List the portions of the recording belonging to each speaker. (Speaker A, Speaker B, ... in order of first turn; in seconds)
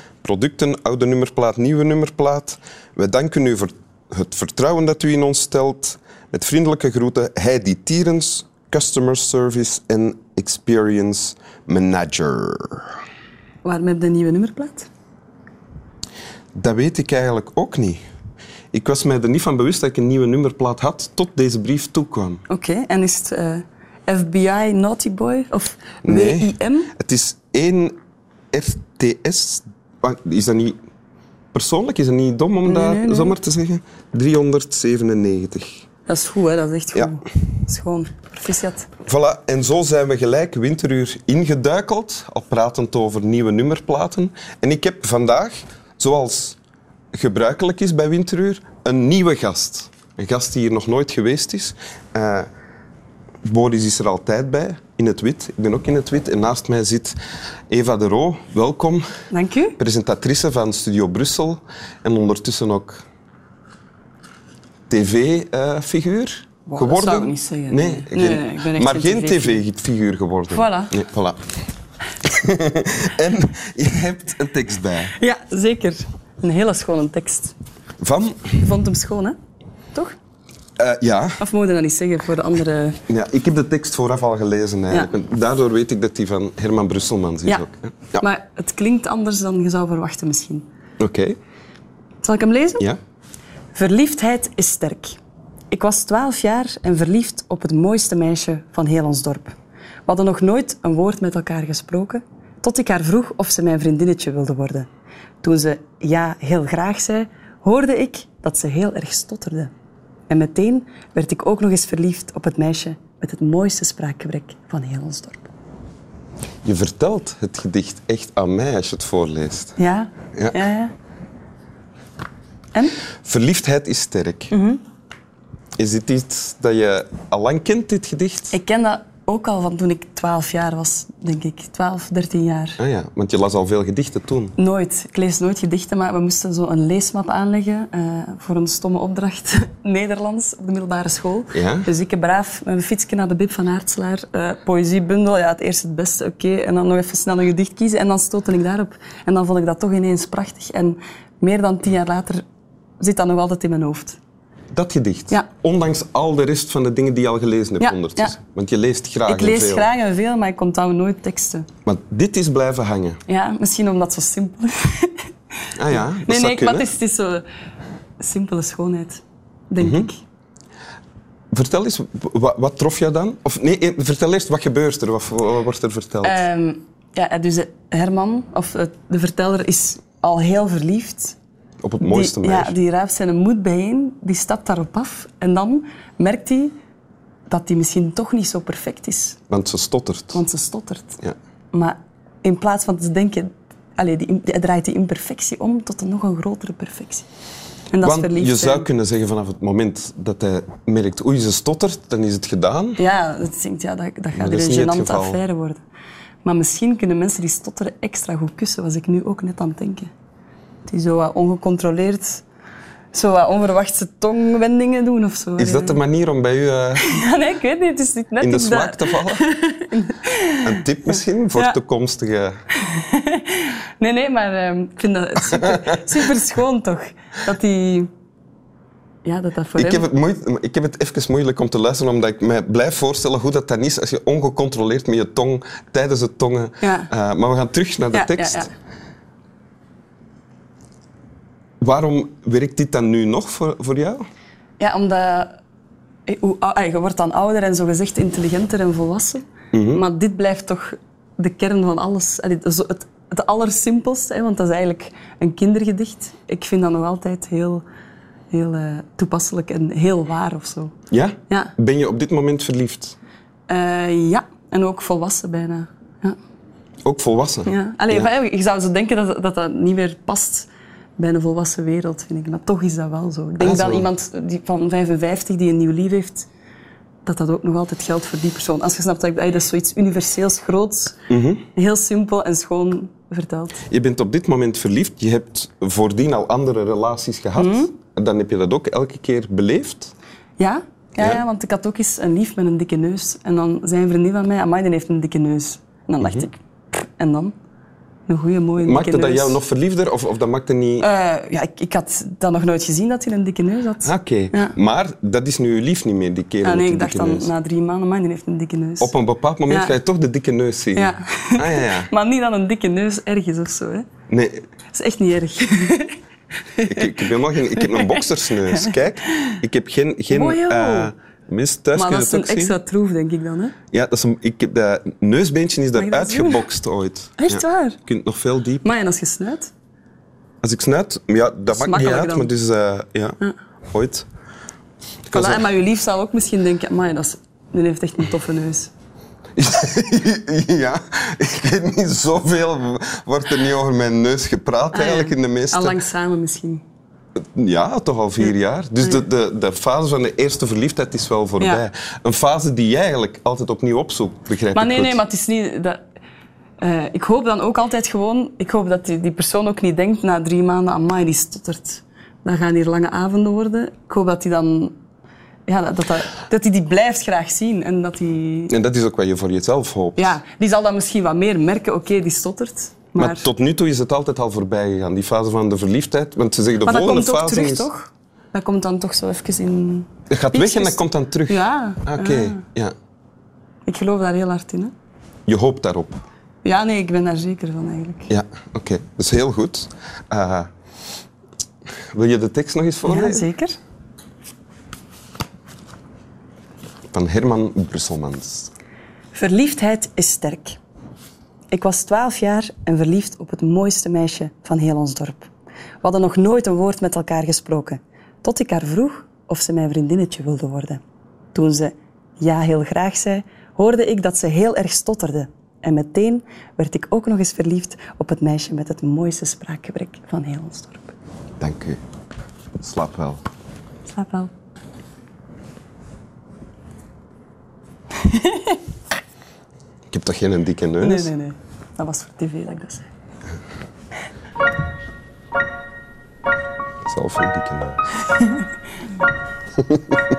Speaker A: 0.2-12.9, 16.5-18.0, 18.7-22.4, 26.0-27.9, 28.5-30.8, 31.5-35.8, 39.0-46.6, 47.1-52.5, 53.4-57.1, 57.7-59.0, 59.8-63.0, 64.9-71.5, 72.2-75.1, 78.0-78.6, 80.8-81.4, 83.1-88.2, 91.0-91.4, 116.6-119.8, 123.2-124.5, 125.8-128.5, 132.8-134.5, 141.5-141.9, 154.7-159.9, 161.8-163.2, 165.8-166.9, 169.8-170.1, 171.5-176.4, 181.8-182.7, 189.5-190.4, 198.0-203.0, 204.4-205.4, 215.6-217.1, 218.4-219.4, 220.6-222.6, 225.5-226.0, 229.8-238.7, 241.8-244.2, 249.7-250.0, 261.1-263.2, 267.0-268.3, 273.6-274.1, 281.3-281.6, 283.9-290.1, 296.2-296.4, 298.8-301.1, 304.0-307.5, 309.0-312.1, 314.3-314.6, 316.9-322.7, 323.9-328.9, 330.6-333.4, 333.9-334.2, 335.3-335.6, 339.6-346.0, 347.4-355.2, 368.7-370.4, 373.2-377.9, 380.3-382.9, 385.5-386.2, 388.3-390.7, 392.1-393.5, 397.1-398.7, 421.6-422.0, 422.8-423.4, 430.1-431.3, 437.0-438.0, 439.8-440.2
Speaker B: 13.6-14.9, 22.5-26.9, 32.6-33.4, 36.1-38.9, 59.3-59.8, 66.7-69.6, 70.5-71.0, 75.2-77.5, 78.5-79.4, 81.4-83.0, 88.2-90.7, 92.2-92.9, 93.7-95.2, 95.7-99.5, 100.0-104.9, 105.4-109.7, 110.3-115.5, 119.8-120.9, 124.5-124.8, 128.5-132.8, 134.6-152.4, 153.0-154.2, 157.8-158.3, 159.2-161.7, 163.3-165.3, 165.9-167.4, 168.2-170.2, 176.2-181.3, 182.0-186.8, 187.5-189.4, 190.3-191.2, 191.7-197.2, 197.9-198.9, 203.0-205.8, 206.4-210.1, 210.8-212.4, 213.1-216.0, 217.0-220.8, 222.8-228.1, 229.2-230.1, 236.8-237.1, 238.1-238.7, 244.8-245.6, 246.3-257.8, 258.5-260.9, 261.5-261.7, 263.7-266.4, 267.6-276.5, 277.2-281.2, 281.7-283.8, 287.6-287.9, 290.6-297.5, 298.3-299.6, 301.0-304.7, 306.6-309.1, 309.7-309.9, 310.9-314.1, 314.9-316.1, 316.7-319.6, 320.3-321.1, 321.9-323.7, 325.9-326.6, 327.4-328.0, 328.8-329.7, 331.7-332.5, 335.3-338.9, 344.9-346.8, 348.4-349.2, 354.7-356.0, 356.8-364.9, 365.7-368.7, 370.1-373.5, 376.8-382.6, 383.9-384.9, 386.6-388.3, 393.0-393.8, 399.3-400.8, 401.7-405.5, 406.0-411.0, 411.5-421.1, 424.1-424.5, 428.2-428.8, 431.0-433.1